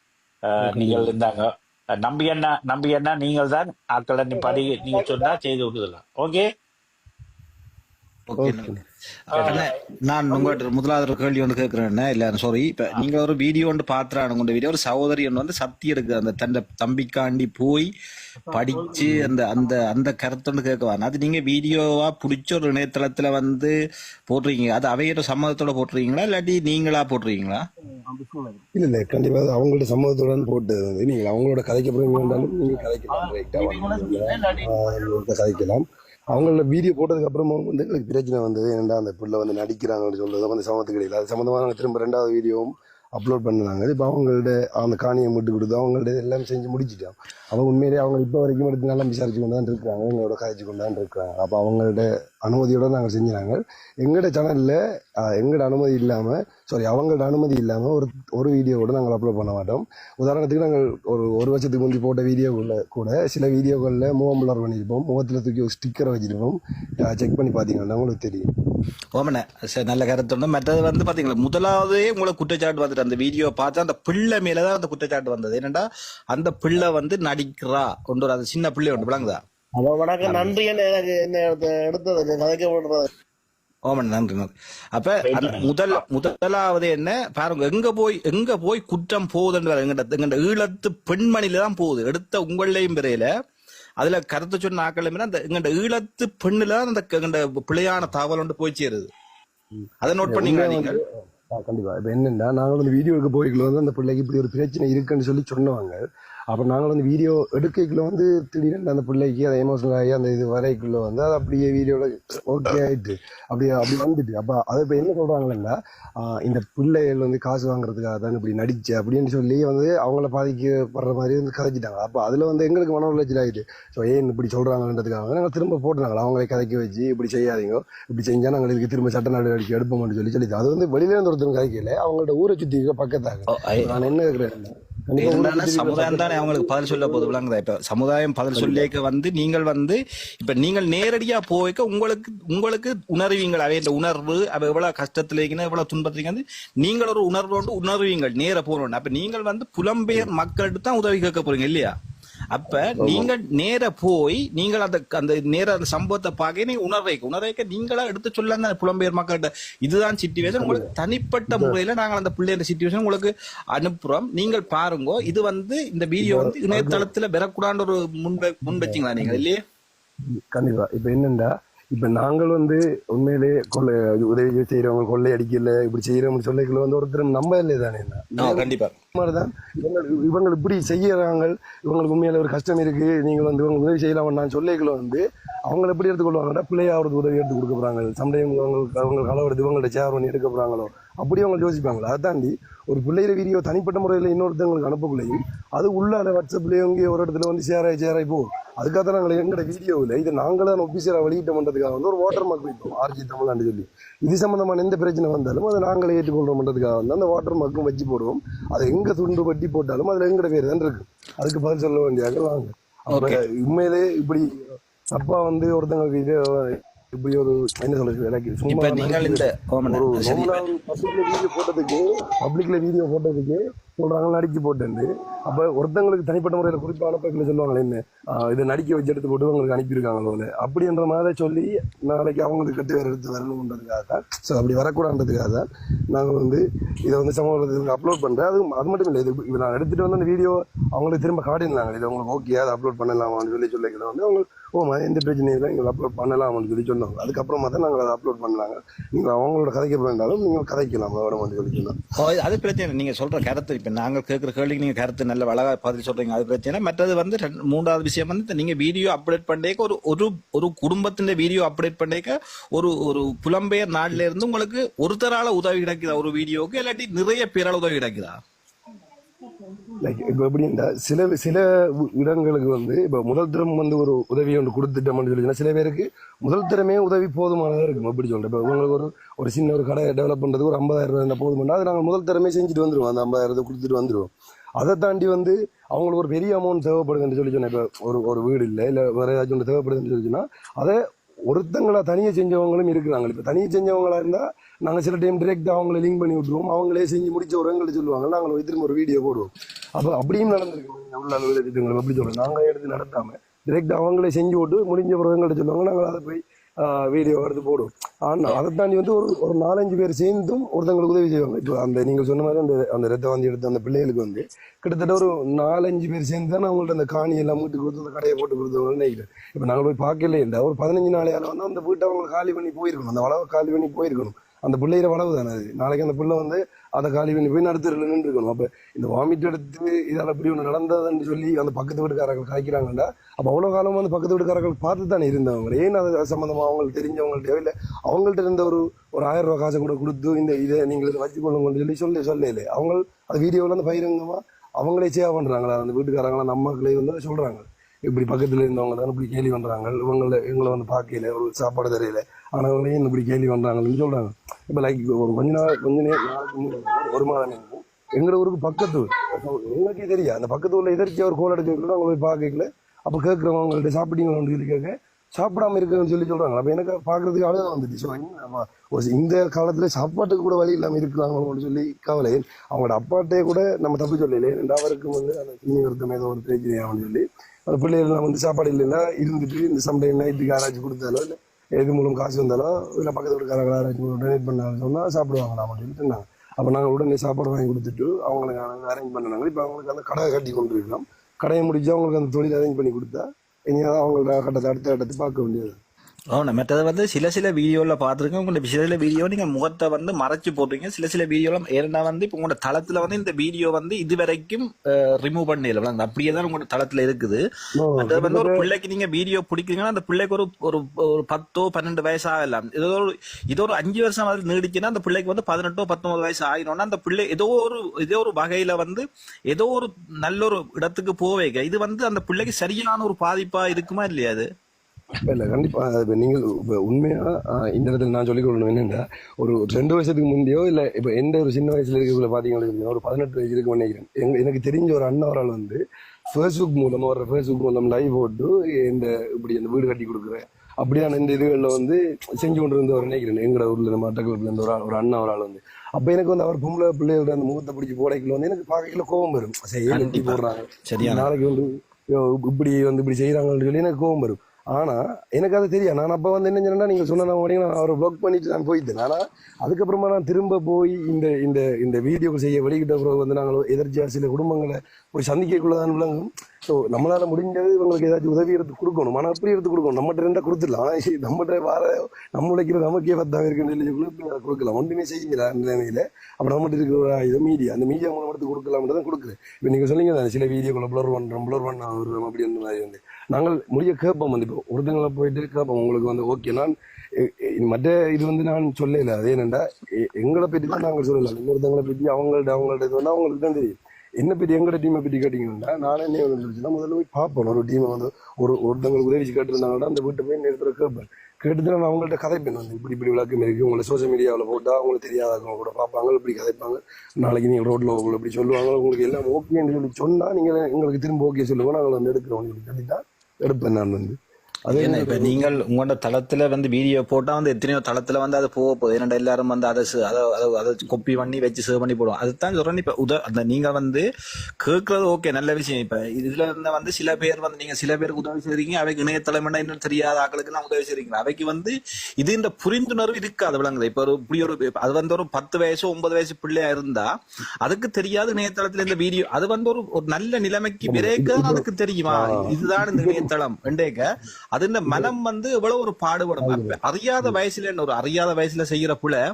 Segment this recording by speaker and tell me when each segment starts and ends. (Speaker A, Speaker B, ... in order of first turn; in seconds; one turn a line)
Speaker A: 0.5-6.5
Speaker B: 0.6-1.1
Speaker C: 4.5-5.2
Speaker D: 8.3-8.7
Speaker B: 8.4-8.8
Speaker D: 9.4-17.9
Speaker D: 18.5-23.7
Speaker C: 18.5-19.3
Speaker B: 19.1-19.3
Speaker D: 24.3-27.6
Speaker C: 28.0-28.6
Speaker B: 28.7-68.5
Speaker C: 32.2-32.6
Speaker C: 33.2-35.2
Speaker D: 69.1-79.4
Speaker C: 79.8-83.1
Speaker D: 80.2-80.5
Speaker D: 83.8-93.3
Speaker A: 85.2-86.0
Speaker D: 94.0-99.1
Speaker B: 99.7-137.3
Speaker D: 100.0-101.0
Speaker D: 133.5-134.0
Speaker D: 135.2-151.9
Speaker B: 138.5-138.9
Speaker D: 152.5-169.6
Speaker B: 152.9-153.3
Speaker B: 160.4-160.9
Speaker B: 161.5-161.8
Speaker B: 166.2-167.1
Speaker B: 168.7-169.4
Speaker B: 170.2-252.0
Speaker D: 178.4-178.9
Speaker D: 213.1-213.4
Speaker D: 218.7-220.6
Speaker D: 252.2-268.4
Speaker B: 270.0-395.8
Speaker D: 396.3-407.4
Speaker B: 407.8-408.6
Speaker D: 408.0-424.4
Speaker B: 425.2-515.5
Speaker D: 449.9-451.3
Speaker D: 514.7-524.0
Speaker D: 524.6-537.1
Speaker D: 537.6-544.0
Speaker B: 540.9-543.3
Speaker D: 544.5-549.2
Speaker B: 546.4-547.4